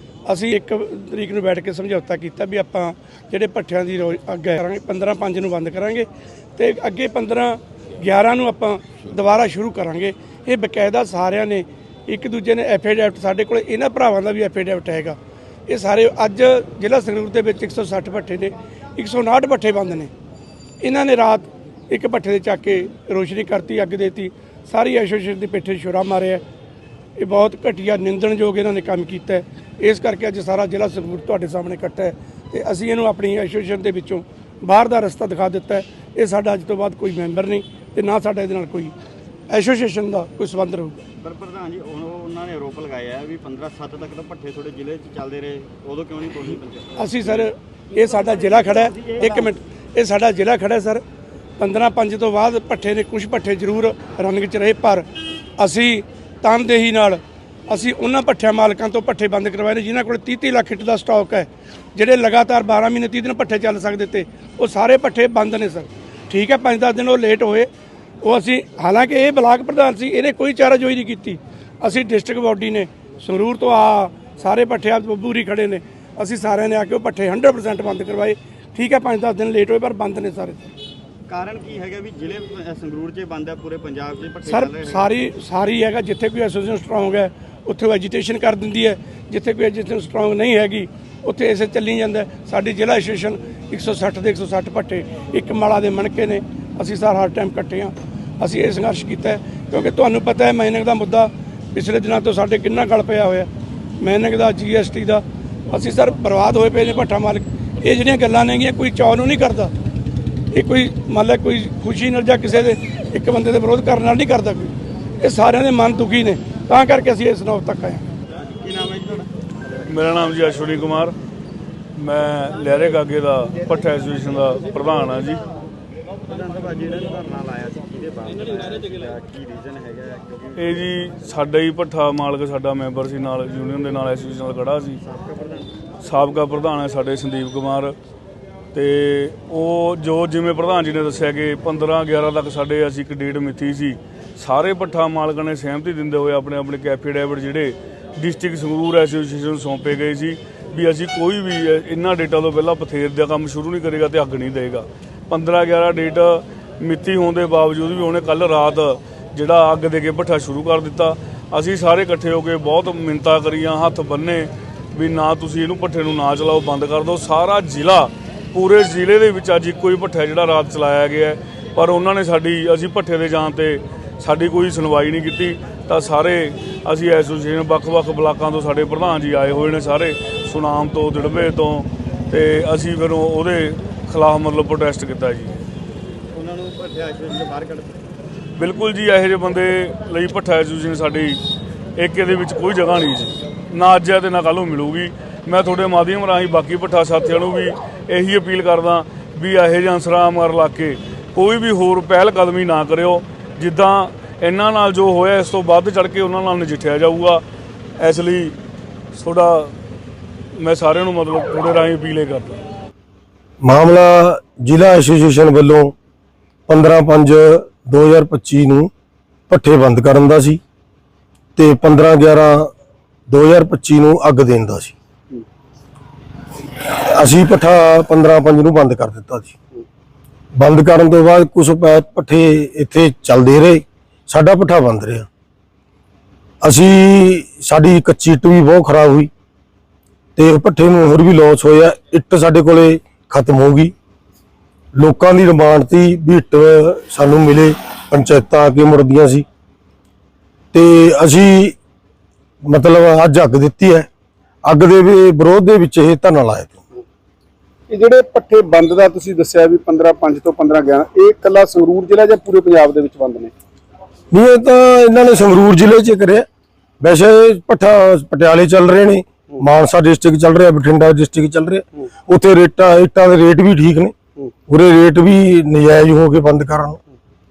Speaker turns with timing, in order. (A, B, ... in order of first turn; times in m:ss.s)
0:00.3-0:20.1 A
0:20.8-0:26.4 A
0:27.2-0:38.9 A
0:39.5-0:41.0 A
0:41.3-0:47.0 B
0:47.0-0:51.0 A
0:51.6-0:55.1 A
0:55.6-1:07.7 A
1:08.2-1:20.6 A
1:21.3-1:25.0 B
1:24.4-1:43.5 A
1:44.0-1:49.7 A
1:50.5-1:58.0 A
1:58.4-1:59.8 B
1:59.9-2:01.2 C
2:02.0-2:05.4 C
2:06.2-2:10.8 B
2:10.6-2:15.0 C
2:15.0-2:15.7 B
2:16.0-2:18.0 C
2:18.7-3:05.6 C
3:06.3-3:07.9 B
3:08.6-3:11.4 C
3:12.0-3:27.4 C
3:28.0-3:28.6 C
3:29.1-3:29.7 C
3:30.6-3:32.6 C
3:33.6-3:35.9 D
3:36.7-3:38.9 D
3:39.5-3:40.6 D
3:41.6-3:42.7 D
3:43.3-3:44.9 D
3:46.8-3:49.5 D
3:50.6-3:55.3 D
3:56.6-3:59.3 D
4:00.4-4:03.9 D
4:05.0-4:09.4 D
4:10.7-4:11.8 D
4:12.7-4:14.1 D
4:14.7-4:16.8 D
4:17.9-4:23.5 E
4:24.3-4:26.5 D
4:27.0-4:34.1 D
4:34.7-4:37.0 D